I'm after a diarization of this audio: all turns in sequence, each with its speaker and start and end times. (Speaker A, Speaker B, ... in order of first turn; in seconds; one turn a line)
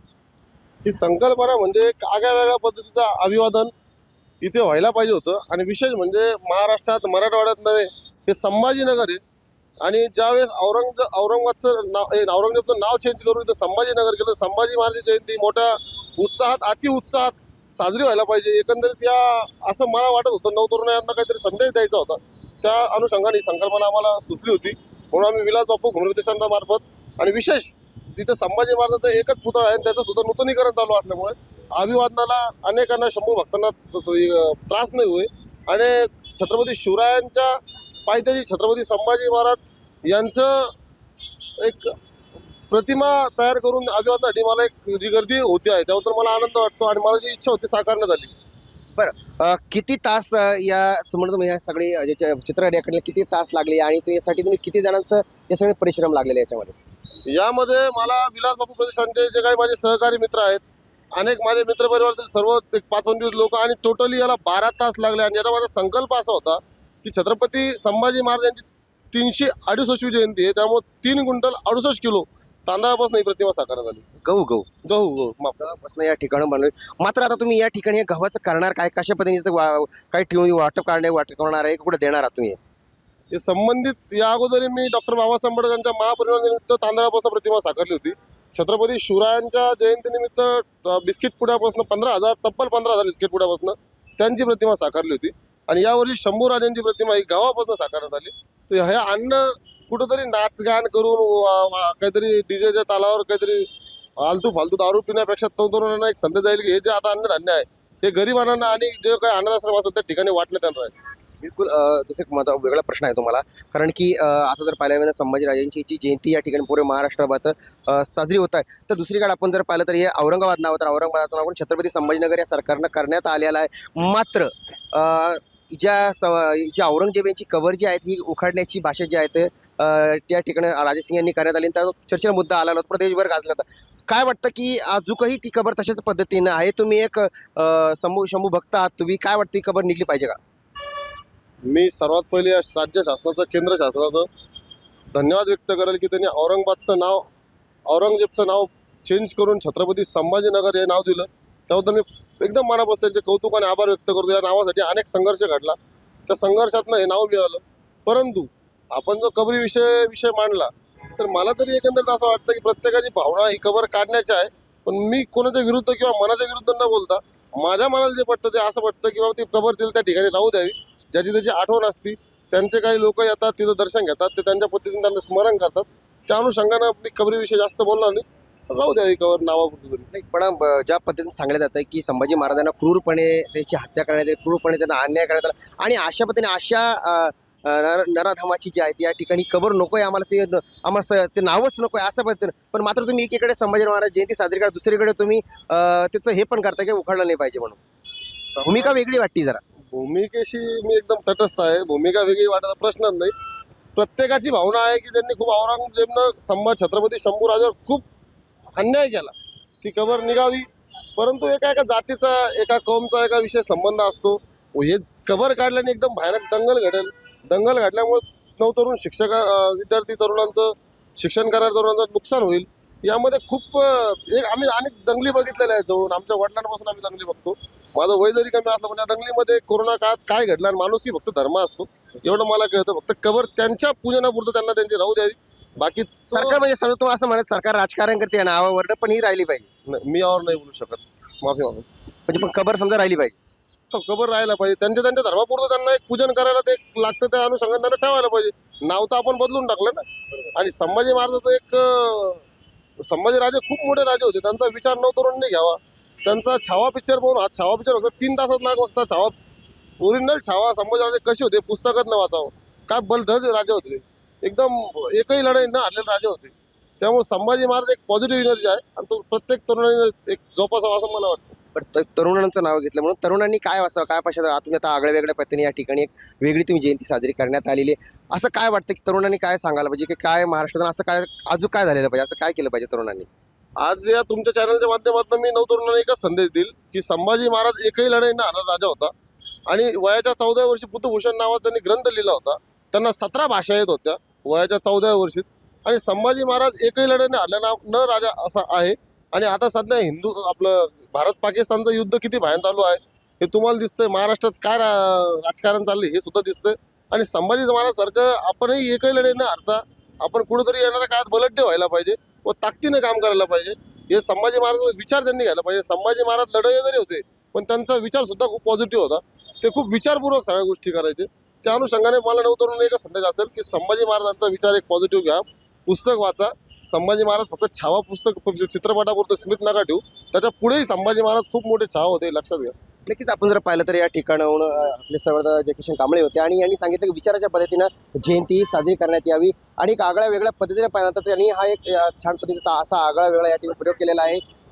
Speaker A: 0.8-3.7
Speaker A: 4.4-9.2
Speaker A: 9.8-40.7
Speaker A: 41.6-41.9
Speaker A: 42.7-48.4
Speaker B: 49.0-56.8
Speaker A: 57.3-60.6
Speaker A: 61.1-74.0
Speaker B: 74.2-74.7
Speaker A: 74.8-75.6
Speaker B: 75.6-82.6
Speaker A: 83.3-103.7
Speaker A: 104.2-111.0
Speaker B: 111.4-140.4
Speaker A: 141.7-144.3
Speaker A: 145.1-147.3
Speaker A: 147.9-180.1
Speaker B: 180.1-197.8
Speaker A: 198.5-199.0
Speaker B: 198.7-199.6
Speaker A: 199.9-203.3
Speaker A: 203.9-208.1
Speaker A: 208.8-236.6
Speaker B: 236.3-239.7
Speaker A: 239.9-241.9
Speaker B: 242.3-243.4
Speaker A: 243.9-252.4
Speaker A: 253.1-259.4
Speaker A: 260.0-271.6
Speaker B: 271.8-283.3
Speaker A: 283.8-289.1
Speaker A: 289.7-332.8
Speaker B: 333.1-344.4